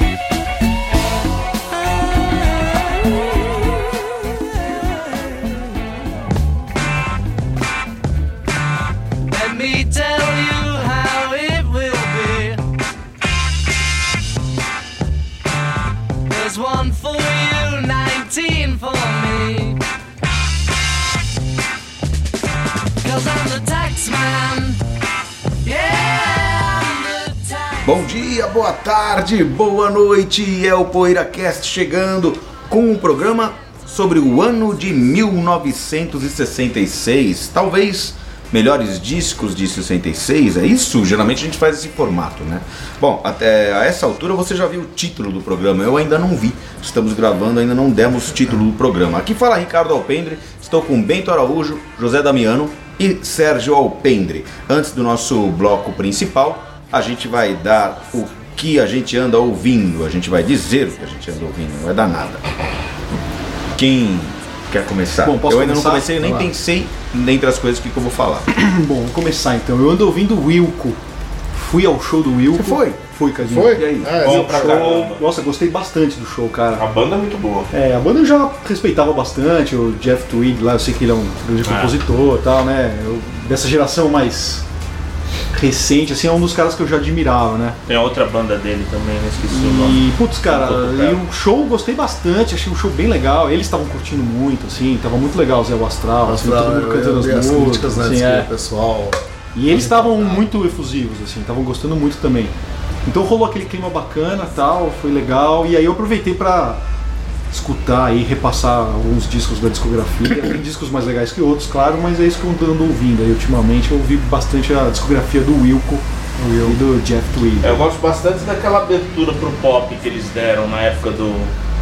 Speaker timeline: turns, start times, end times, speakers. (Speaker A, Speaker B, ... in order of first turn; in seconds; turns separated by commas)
Speaker A: 1.9-5.8, Speaker A: 9.3-12.7, Speaker A: 16.3-19.8, Speaker A: 23.0-24.8, Speaker A: 25.6-27.9, Speaker B: 27.9-62.4, Speaker B: 63.7-68.5, Speaker C: 65.2-66.2, Speaker D: 66.2-66.5, Speaker C: 68.5-71.0, Speaker C: 71.5-76.8, Speaker B: 72.5-73.0, Speaker D: 73.4-74.7, Speaker B: 73.6-74.1, Speaker E: 74.1-75.2, Speaker E: 76.8-77.7, Speaker C: 77.7-84.7, Speaker E: 81.7-82.0, Speaker C: 85.5-87.8, Speaker E: 87.9-91.1, Speaker C: 89.5-98.5, Speaker D: 96.2-100.5, Speaker C: 99.5-102.5, Speaker C: 103.0-106.8, Speaker C: 107.5-117.8, Speaker E: 117.6-121.5